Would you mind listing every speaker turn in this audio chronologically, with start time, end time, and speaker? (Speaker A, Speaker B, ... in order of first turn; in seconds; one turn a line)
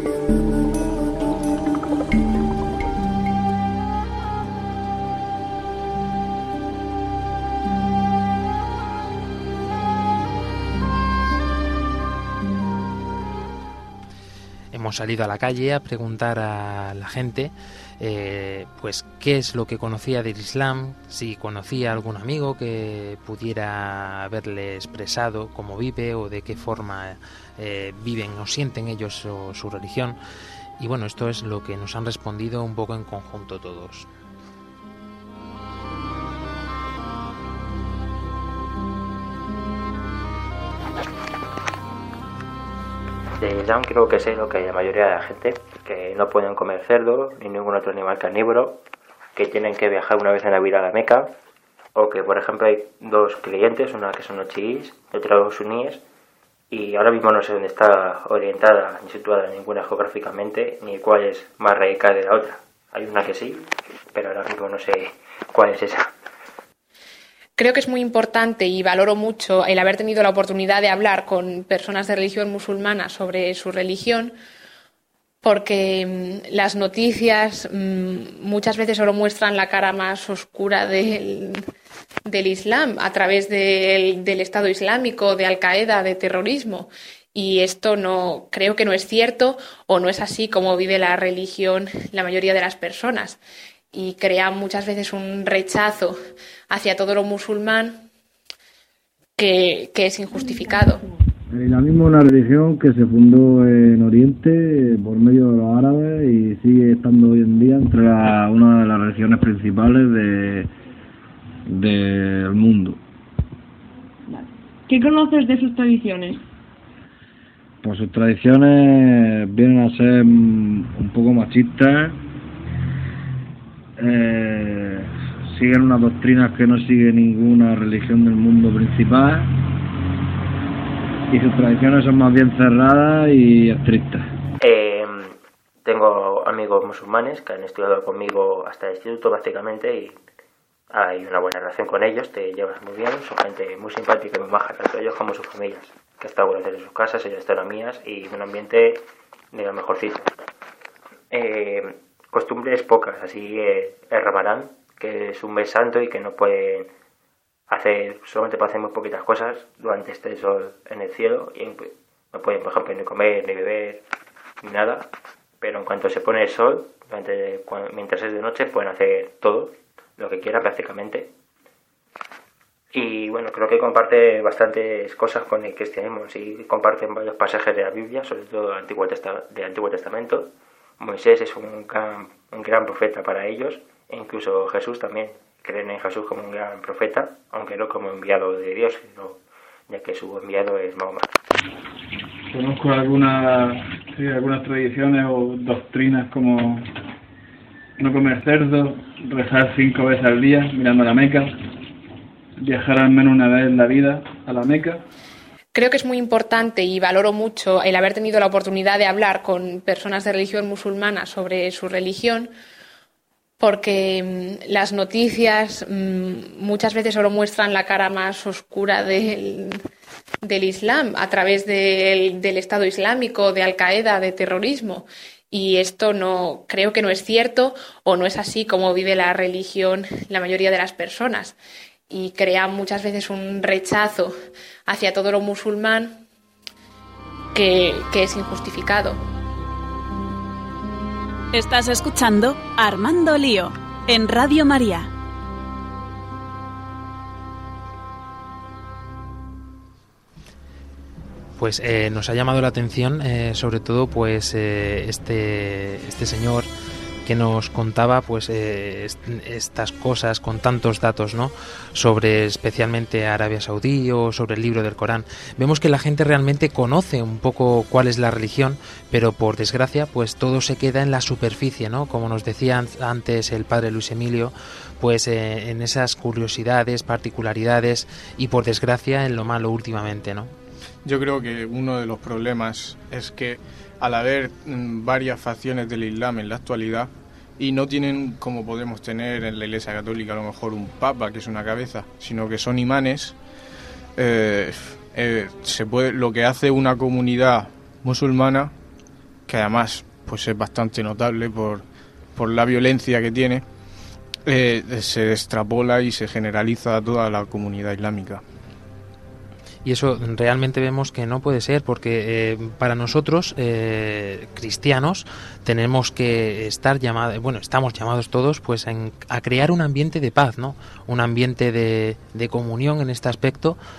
Speaker A: 14.7-30.2
Speaker A: 30.8-34.1
Speaker B: 43.4-48.8
Speaker B: 49.4-51.4
Speaker B: 52.0-56.0
Speaker B: 56.7-66.1
Speaker C: 67.6-74.4
Speaker C: 75.4-81.7
Speaker C: 82.3-93.4
Speaker C: 93.9-96.2
Speaker C: 96.7-98.1
Speaker C: 99.4-101.0
Speaker D: 101.5-110.7
Speaker D: 111.7-113.0
Speaker E: 114.3-116.4
Speaker D: 117.8-122.2
Speaker D: 124.0-129.6
Speaker D: 131.3-134.3
Speaker B: 134.6-140.2
Speaker B: 140.9-150.3
Speaker B: 151.3-156.9
Speaker B: 157.7-164.0
Speaker B: 164.6-171.3
Speaker B: 172.9-191.3
Speaker F: 192.5-196.9
Speaker F: 198.0-201.6
Speaker F: 202.6-205.0
Speaker C: 205.7-212.5
Speaker C: 213.6-219.8
Speaker C: 220.4-231.6
Speaker C: 232.1-234.3
Speaker C: 234.9-236.2
Speaker C: 237.5-239.2
Speaker G: 241.5-245.1
Speaker A: 251.6-256.7
Speaker A: 257.2-280.5
Speaker H: 281.0-293.4
Speaker H: 294.2-298.7
Speaker H: 299.5-303.6
Speaker H: 304.5-308.4
Speaker A: 309.8-323.8